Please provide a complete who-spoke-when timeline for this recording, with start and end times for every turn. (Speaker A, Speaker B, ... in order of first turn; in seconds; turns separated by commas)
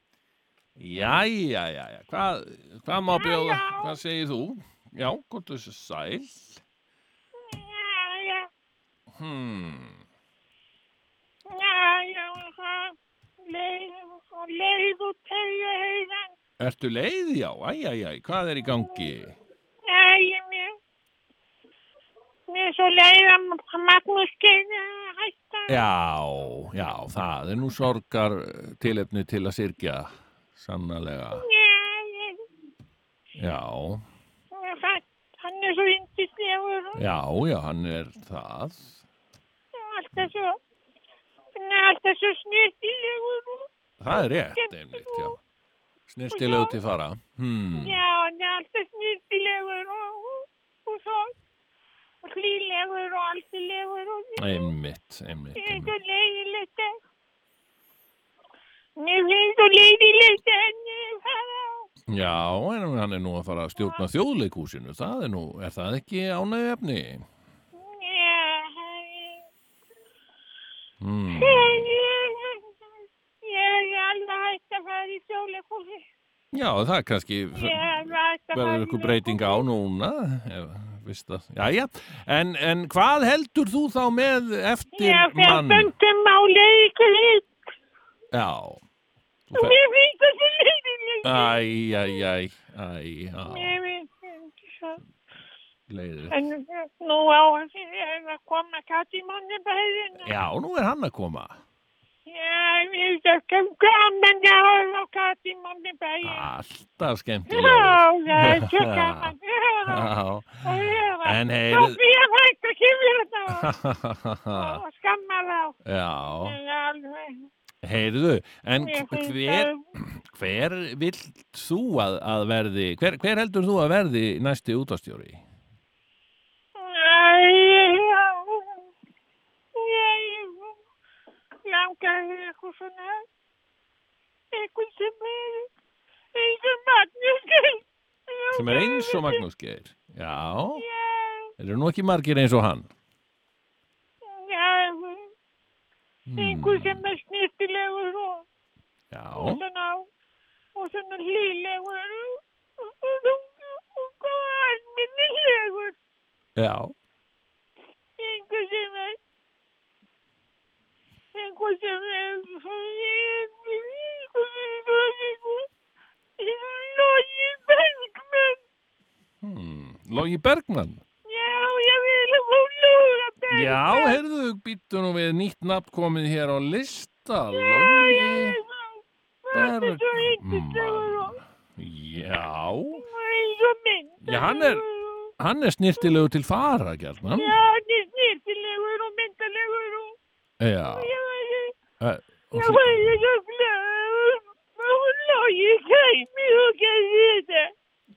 Speaker A: 0.8-6.6, Speaker B: 3.1-3.9, Speaker B: 7.4-8.5, Speaker A: 9.1-10.0, Speaker B: 11.5-16.3, Speaker A: 16.6-19.4, Speaker B: 19.9-20.8, Speaker B: 22.5-25.8, Speaker A: 25.7-31.4, Speaker B: 31.4-32.5, Speaker A: 33.4-34.0, Speaker B: 34.5-37.0, Speaker A: 37.0-39.0, Speaker B: 39.7-40.6, Speaker B: 41.5-45.4, Speaker A: 44.0-45.4, Speaker A: 46.1-48.0, Speaker B: 46.3-46.8, Speaker B: 47.7-51.3, Speaker B: 52.2-54.7, Speaker A: 54.4-55.9, Speaker B: 55.5-57.0, Speaker B: 59.0-61.9, Speaker A: 62.1-67.2, Speaker B: 67.8-69.4, Speaker A: 71.0-71.9, Speaker B: 71.3-72.7, Speaker B: 73.4-76.0, Speaker A: 76.5-85.9, Speaker B: 77.5-79.6, Speaker B: 84.9-87.5, Speaker A: 88.3-88.8, Speaker A: 89.5-89.8, Speaker B: 89.5-91.5, Speaker A: 91.2-93.8, Speaker B: 93.5-95.0, Speaker A: 95.9-96.4, Speaker B: 96.3-100.3, Speaker A: 100.2-101.6, Speaker B: 102.3-106.5, Speaker A: 106.2-109.3, Speaker B: 107.5-110.1, Speaker A: 109.9-110.6, Speaker B: 110.6-113.7, Speaker A: 111.2-112.0, Speaker A: 113.5-114.8, Speaker B: 114.5-115.8, Speaker A: 115.8-116.6, Speaker B: 116.4-117.5, Speaker A: 117.8-125.4, Speaker B: 118.8-119.8, Speaker B: 126.8-128.8, Speaker B: 129.7-130.7, Speaker B: 131.6-133.3, Speaker B: 134.5-135.7, Speaker B: 136.3-139.4, Speaker A: 138.5-140.8, Speaker B: 140.8-141.5, Speaker A: 141.6-142.9, Speaker B: 144.2-145.3, Speaker A: 146.3-147.0, Speaker B: 146.4-148.4, Speaker A: 149.1-149.6, Speaker B: 149.3-150.1, Speaker B: 150.8-155.9, Speaker A: 156.6-156.9, Speaker B: 158.2-159.2, Speaker B: 161.3-165.7, Speaker B: 166.4-168.6, Speaker A: 169.4-171.0, Speaker B: 171.3-174.2, Speaker A: 173.5-178.6, Speaker B: 177.5-181.4, Speaker A: 179.5-183.0, Speaker B: 182.9-185.3, Speaker A: 184.2-184.8, Speaker A: 185.4-187.6, Speaker B: 187.3-190.2, Speaker A: 190.6-191.1, Speaker B: 190.9-191.8, Speaker A: 192.0-193.0, Speaker B: 192.5-197.7